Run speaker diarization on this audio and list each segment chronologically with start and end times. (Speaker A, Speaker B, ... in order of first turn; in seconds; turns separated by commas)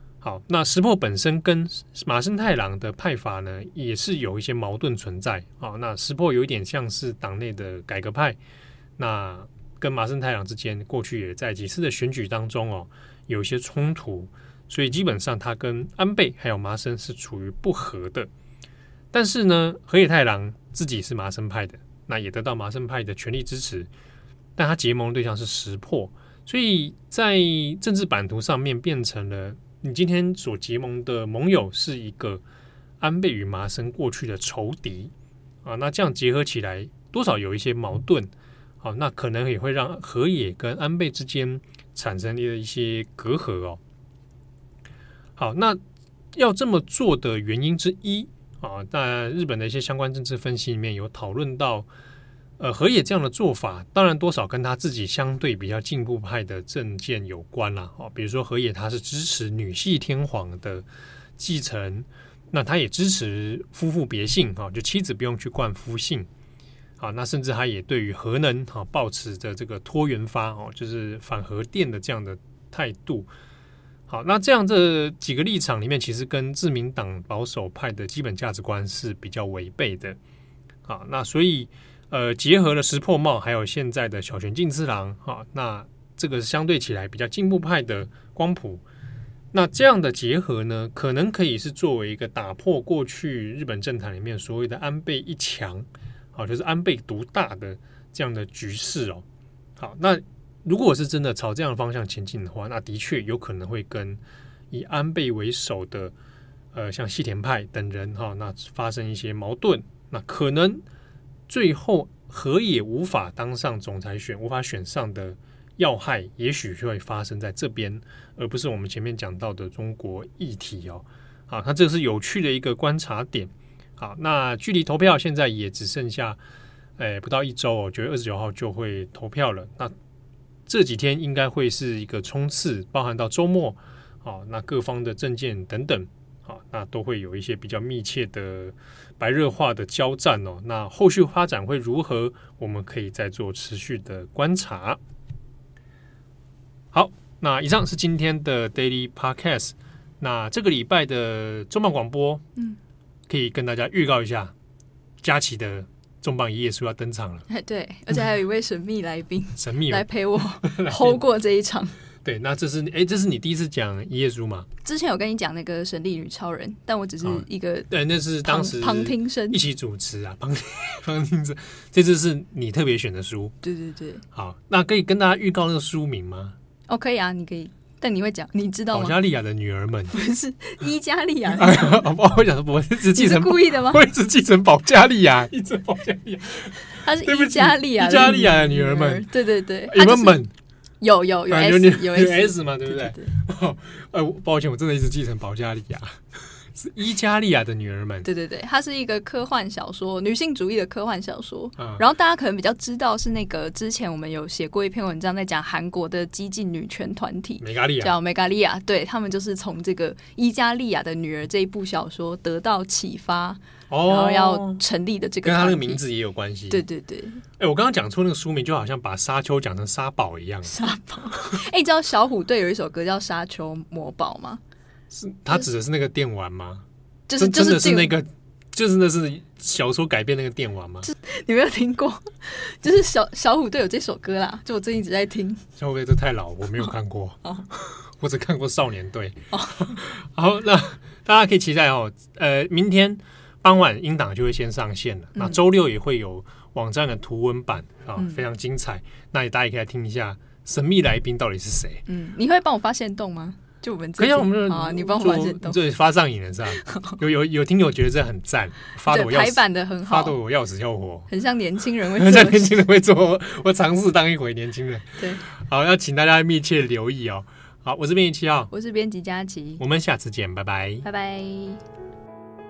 Speaker A: 0.2-8.4, Speaker A: 9.0-18.3, Speaker A: 19.1-23.9, Speaker A: 24.6-32.4, Speaker A: 33.0-35.1, Speaker A: 35.6-43.8, Speaker A: 45.4-45.8, Speaker A: 46.3-51.9, Speaker A: 52.6-60.8, Speaker A: 61.4-66.3, Speaker A: 67.0-73.3, Speaker A: 74.1-80.2, Speaker A: 80.8-88.8, Speaker A: 89.5-99.2, Speaker A: 99.8-106.1, Speaker A: 106.7-110.8, Speaker A: 111.5-126.4, Speaker A: 127.0-129.9, Speaker A: 130.7-145.0, Speaker A: 146.9-152.4, Speaker A: 153.3-154.5, Speaker A: 155.2-157.4, Speaker B: 157.5-161.9, Speaker A: 159.6-160.0, Speaker A: 160.6-161.2, Speaker A: 162.2-164.7, Speaker B: 164.8-167.9, Speaker A: 167.2-173.6, Speaker B: 168.4-169.6, Speaker B: 173.6-174.2, Speaker A: 174.3-176.6, Speaker B: 176.9-179.1, Speaker A: 178.9-180.1, Speaker B: 180.1-181.9, Speaker A: 181.5-189.3, Speaker B: 183.1-184.0, Speaker B: 186.9-190.4, Speaker A: 189.9-190.5, Speaker B: 191.0-193.3, Speaker A: 191.5-196.2, Speaker A: 196.7-198.3, Speaker B: 198.2-216.0, Speaker A: 207.6-208.1, Speaker A: 213.9-214.8, Speaker A: 215.4-216.8, Speaker B: 216.7-217.4, Speaker A: 217.6-220.8, Speaker B: 220.6-224.6, Speaker A: 225.1-226.8, Speaker B: 227.3-228.1, Speaker A: 227.4-231.1, Speaker B: 231.0-235.6, Speaker A: 235.8-252.0, Speaker B: 239.5-239.9, Speaker B: 245.3-245.6, Speaker B: 248.2-248.4, Speaker B: 252.1-255.8, Speaker A: 254.2-261.3, Speaker B: 256.8-257.2, Speaker B: 259.1-260.4, Speaker B: 261.3-262.7, Speaker A: 262.1-268.7, Speaker B: 265.2-265.4, Speaker B: 268.7-269.8, Speaker A: 269.8-271.0, Speaker B: 271.0-271.8